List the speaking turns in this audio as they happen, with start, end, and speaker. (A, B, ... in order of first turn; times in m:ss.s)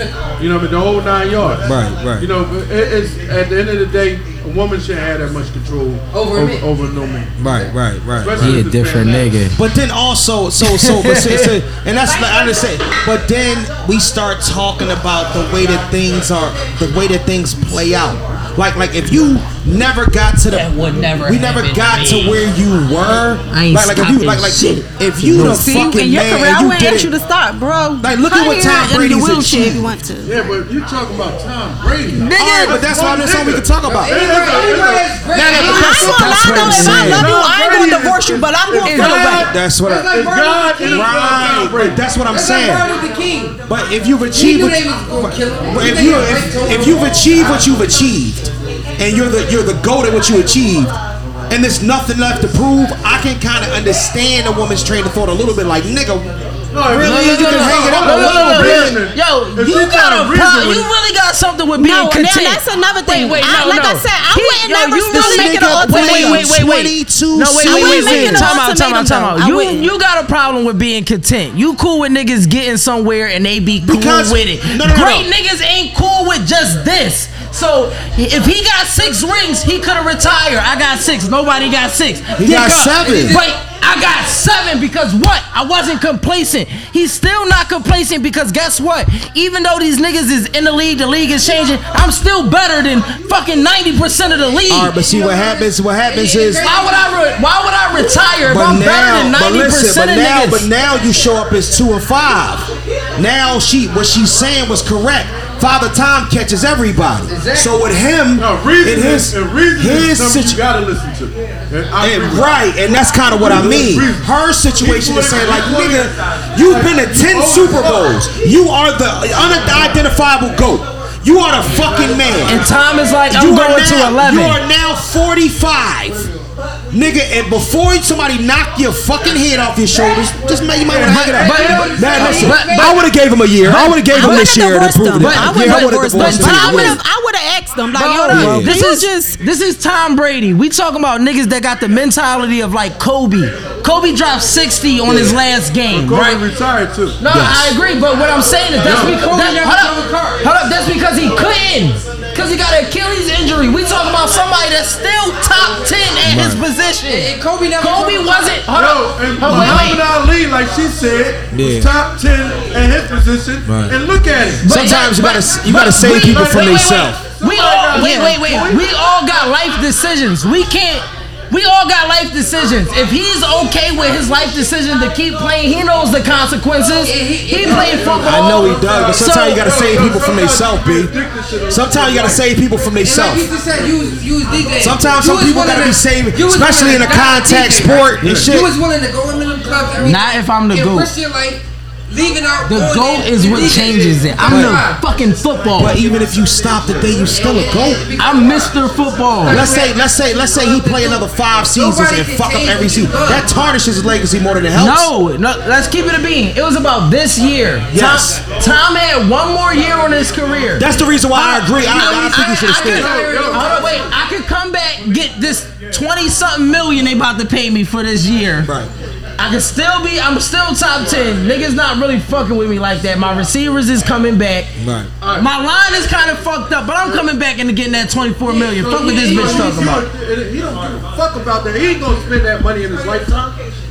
0:00.4-0:01.7 A
0:01.6-0:02.3 B
0:02.2-0:07.3 A
0:06.1-0:06.7 C
0:07.4-0:08.6 B
0:07.4-0:07.7 C
0:08.2-0:09.3 A
0:08.4-0:09.6 D
0:09.6-0:27.1 B
0:10.6-0:11.6 D
0:20.5-0:22.4 D
0:23.5-0:25.9 D
0:25.3-0:30.4 E
0:28.0-0:29.9 B
0:30.2-0:42.0 A
0:32.1-0:32.8 E
0:32.2-0:32.7 D
0:32.4-0:34.2 B
0:33.8-0:36.2 C
0:35.3-0:37.3 B
0:35.5-0:39.5 E
0:36.0-0:37.2 D
0:38.8-0:39.4 D
0:39.3-0:40.2 B
0:39.8-0:41.7 C
0:40.9-0:42.9 B
0:42.3-0:43.6 C
0:43.7-0:51.0 B
0:44.3-0:47.7 C
0:51.5-0:59.0 B
0:56.7-1:00.9 A
0:56.9-1:34.9 D
1:01.8-1:06.5 E
1:05.1-1:08.5 B
1:07.6-1:09.9 E
1:13.8-1:15.3 B
1:22.4-1:23.4 B
1:23.0-1:23.5 C
1:34.7-1:36.7 B
1:34.9-1:37.2 C
1:36.6-1:40.7 D
1:38.4-1:50.6 B
1:47.3-1:47.8 C
1:48.4-1:52.6 A
1:52.0-2:02.7 B
1:53.3-1:58.2 A
2:01.7-2:02.4 A
2:02.4-2:04.6 D
2:03.3-2:06.3 B
2:06.9-2:17.0 B
2:10.8-2:12.6 A
2:11.0-2:13.1 C
2:11.1-2:13.0 D
2:13.6-2:14.6 D
2:13.8-2:19.4 E
2:15.1-2:17.0 D
2:17.9-2:26.4 D
2:18.3-2:18.8 B
2:25.0-2:27.2 A
2:27.2-2:40.1 D
2:27.3-2:27.8 B
2:28.8-2:29.2 A
2:28.8-2:30.5 C
2:36.2-2:36.6 B
2:37.1-2:38.7 C
2:38.7-2:44.8 A
2:39.5-2:39.9 B
2:39.6-2:39.9 C
2:41.5-2:41.9 B
2:43.7-2:44.0 B
2:44.6-2:59.6 D
2:44.7-2:47.3 B
2:45.6-2:48.8 A
2:47.4-2:48.3 C
2:48.0-2:48.3 E
2:57.0-2:58.4 C
2:57.6-3:02.4 A
2:58.2-3:01.1 B
3:01.7-3:03.5 B
3:03.0-3:15.0 C
3:03.7-3:04.2 A
3:04.8-3:08.7 B
3:08.2-3:08.6 A
3:10.0-3:11.1 D
3:12.7-3:16.0 D
3:14.4-3:14.8 B
3:15.8-3:18.1 B
3:17.3-3:18.8 C
3:18.2-3:19.7 D
3:19.4-3:23.6 C
3:19.5-3:25.1 B
3:24.8-3:38.7 D
3:27.9-3:28.4 B
3:30.8-3:33.1 B
3:30.9-3:34.1 C
3:32.9-3:33.7 A
3:38.6-3:38.9 B
3:39.4-3:44.7 D
3:44.8-3:45.1 B
3:45.2-3:45.5 A
3:45.3-3:50.1 D
3:48.4-3:53.5 A
3:49.1-3:49.8 C